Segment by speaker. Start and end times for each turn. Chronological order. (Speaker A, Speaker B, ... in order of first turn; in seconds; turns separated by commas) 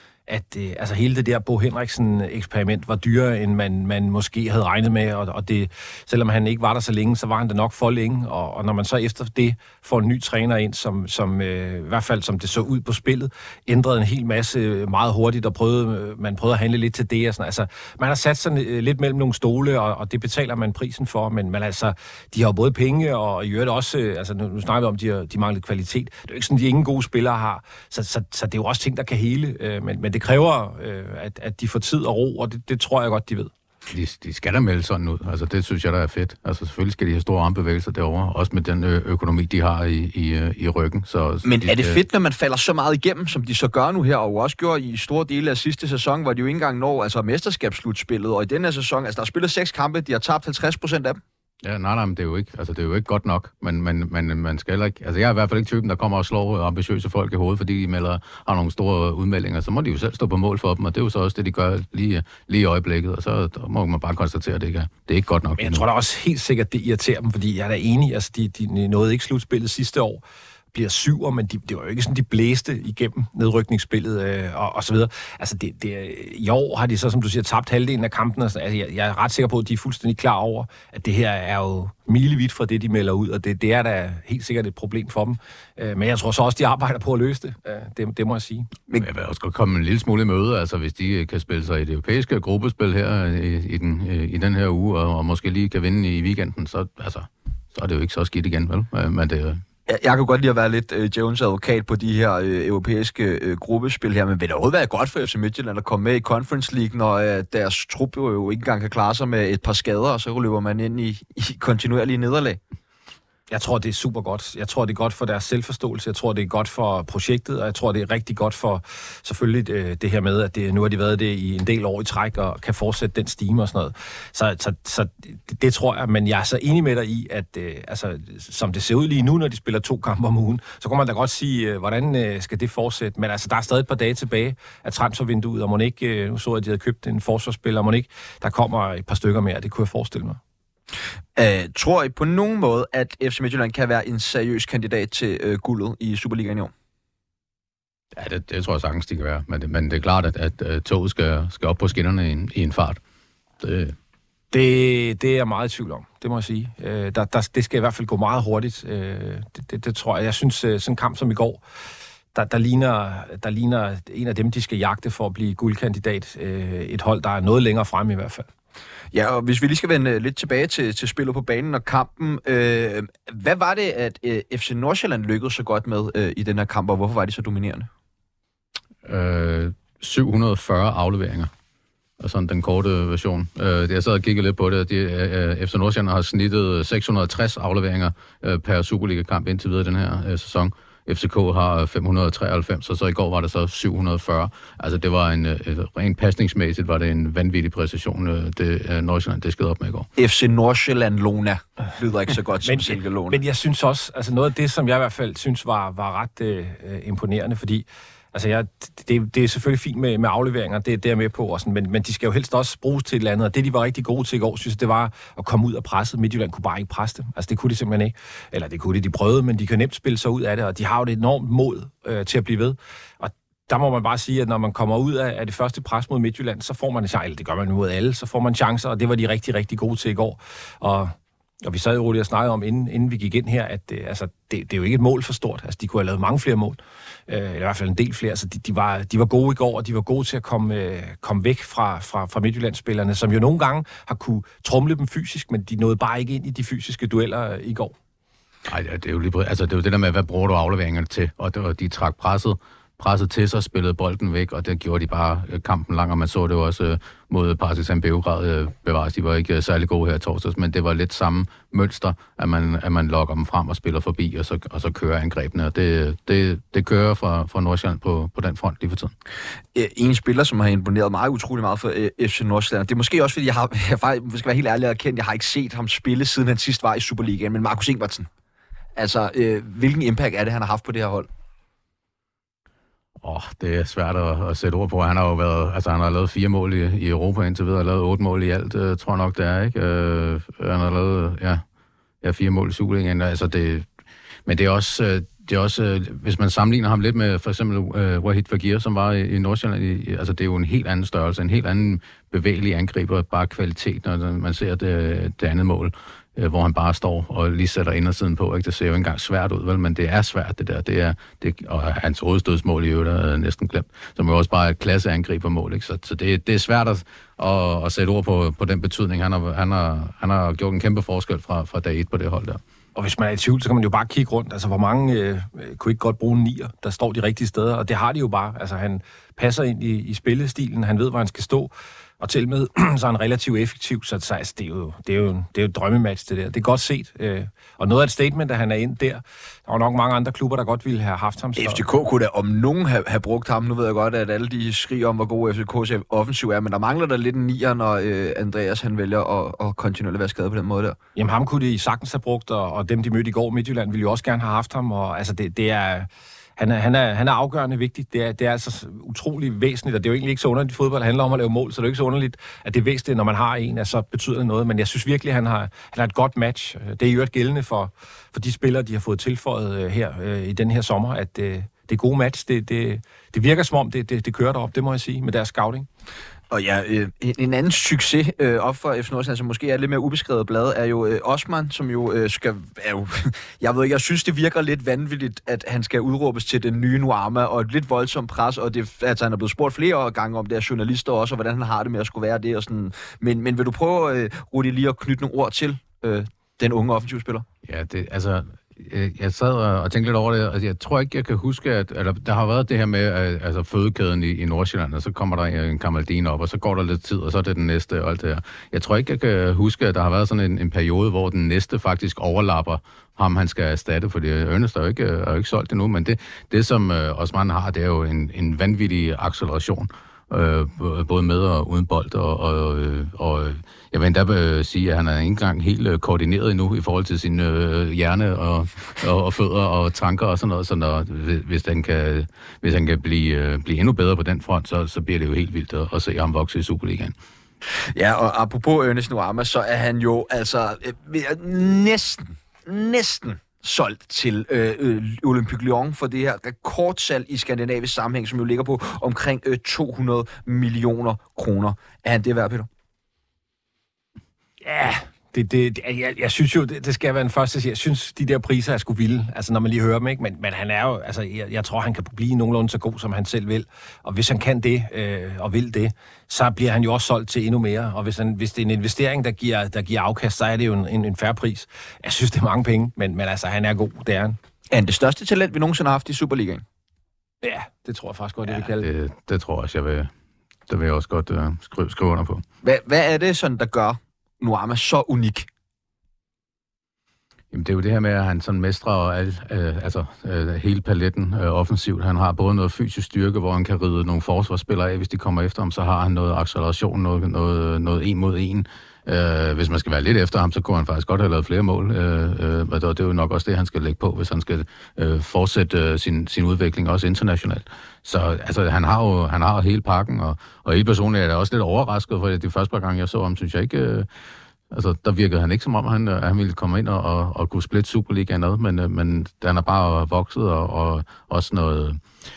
Speaker A: 0.3-33.5, Speaker B: 33.9-42.0, Speaker C: 41.4-51.2, Speaker B: 51.6-65.8, Speaker A: 65.6-70.2, Speaker A: 70.7-88.7, Speaker B: 89.0-99.6, Speaker C: 99.9-112.6, Speaker A: 113.5-140.4, Speaker C: 141.3-146.7, Speaker B: 148.1-153.0, Speaker B: 153.6-153.9, Speaker A: 154.5-161.6, Speaker A: 162.3-168.5, Speaker C: 169.1-177.9, Speaker B: 179.0-181.5, Speaker B: 182.2-200.1, Speaker C: 200.2-203.4, Speaker A: 202.6-247.9, Speaker B: 248.7-269.1, Speaker C: 269.7-278.3, Speaker C: 278.9-281.3, Speaker B: 283.2-291.6, Speaker B: 292.2-293.9, Speaker B: 294.5-322.6, Speaker A: 322.9-341.8, Speaker C: 341.6-351.0, Speaker A: 351.1-375.9, Speaker C: 376.5-397.4, Speaker B: 397.6-437.1, Speaker C: 437.7-452.7, Speaker A: 454.6-474.4, Speaker C: 474.7-476.6, Speaker A: 477.4-478.9, Speaker B: 478.5-480.1, Speaker B: 480.7-482.4, Speaker C: 482.6-485.5, Speaker B: 487.5-514.1, Speaker B: 514.7-522.0